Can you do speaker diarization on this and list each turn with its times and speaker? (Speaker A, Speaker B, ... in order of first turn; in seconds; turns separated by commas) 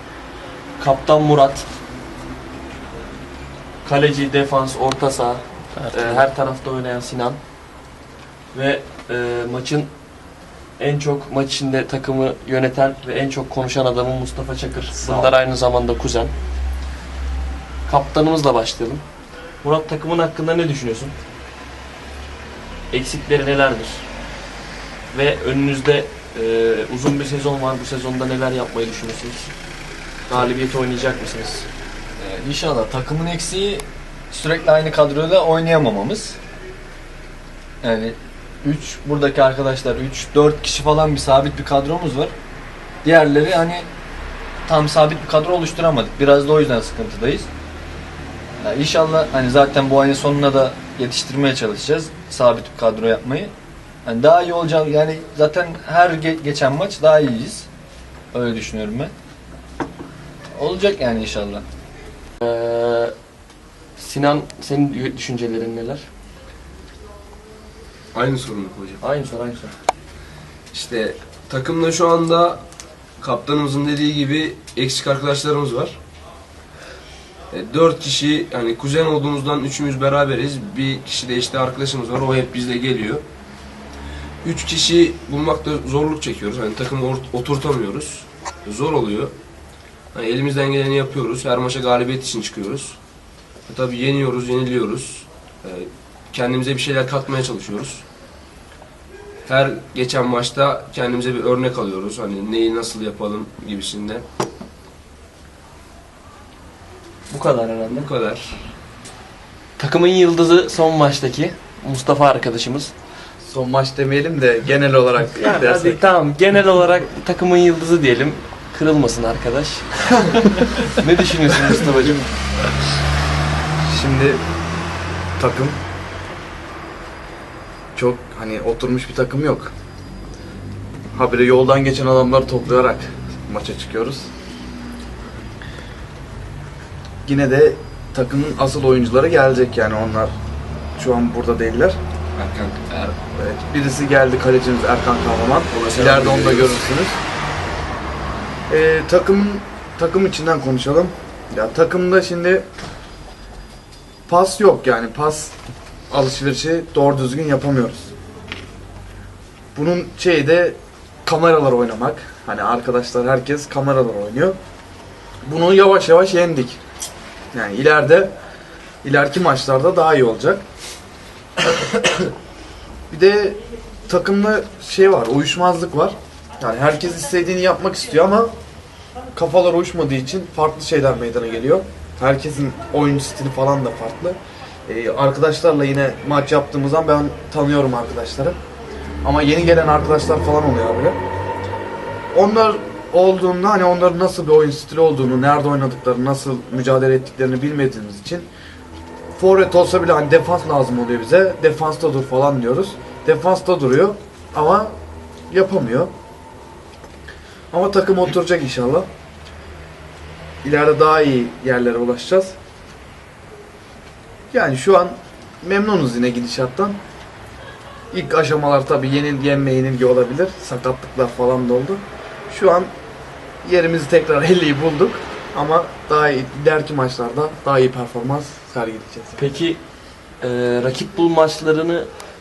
Speaker A: 0.8-1.7, Speaker A: 3.8-7.4, Speaker A: 8.5-9.9, Speaker A: 10.8-16.3, Speaker A: 17.9-19.0, Speaker A: 19.6-21.1, Speaker A: 22.9-24.1, Speaker A: 25.1-29.5, Speaker A: 30.3-31.7, Speaker B: 32.2-36.4, Speaker B: 37.8-42.3, Speaker B: 43.0-43.9, Speaker B: 44.6-47.5, Speaker B: 48.6-53.5, Speaker B: 54.0-57.7, Speaker B: 58.3-59.1, Speaker B: 60.5-61.6, Speaker A: 62.4-63.1, Speaker A: 64.0-66.0, Speaker C: 68.1-69.0, Speaker A: 69.0-69.7, Speaker C: 70.7-72.6, Speaker C: 73.2-76.0, Speaker C: 77.5-83.2, Speaker C: 84.4-89.3, Speaker C: 90.1-93.0, Speaker C: 93.7-98.0, Speaker C: 99.5-104.2, Speaker A: 107.3-108.1, Speaker C: 107.9-108.7, Speaker A: 109.8-112.9, Speaker D: 113.4-116.0, Speaker A: 115.3-122.3, Speaker D: 123.8-124.4, Speaker D: 125.4-125.8, Speaker D: 127.9-129.7, Speaker D: 131.1-134.3, Speaker D: 137.2-140.3, Speaker D: 141.0-142.0, Speaker C: 142.3-143.2, Speaker D: 143.3-147.2, Speaker C: 145.7-146.8, Speaker D: 148.7-152.6, Speaker D: 154.3-155.5, Speaker D: 156.1-158.1, Speaker D: 159.7-164.6, Speaker D: 165.4-166.8, Speaker D: 167.5-168.3, Speaker D: 169.0-170.6, Speaker D: 171.9-172.2, Speaker D: 173.1-178.5, Speaker D: 179.3-188.6, Speaker D: 189.2-191.2, Speaker D: 192.3-198.5, Speaker D: 199.3-204.9, Speaker D: 205.5-206.1, Speaker D: 207.7-209.1, Speaker D: 210.6-212.5, Speaker D: 214.5-217.0, Speaker D: 218.1-222.9, Speaker D: 223.6-229.4, Speaker A: 229.3-229.8, Speaker A: 230.4-232.1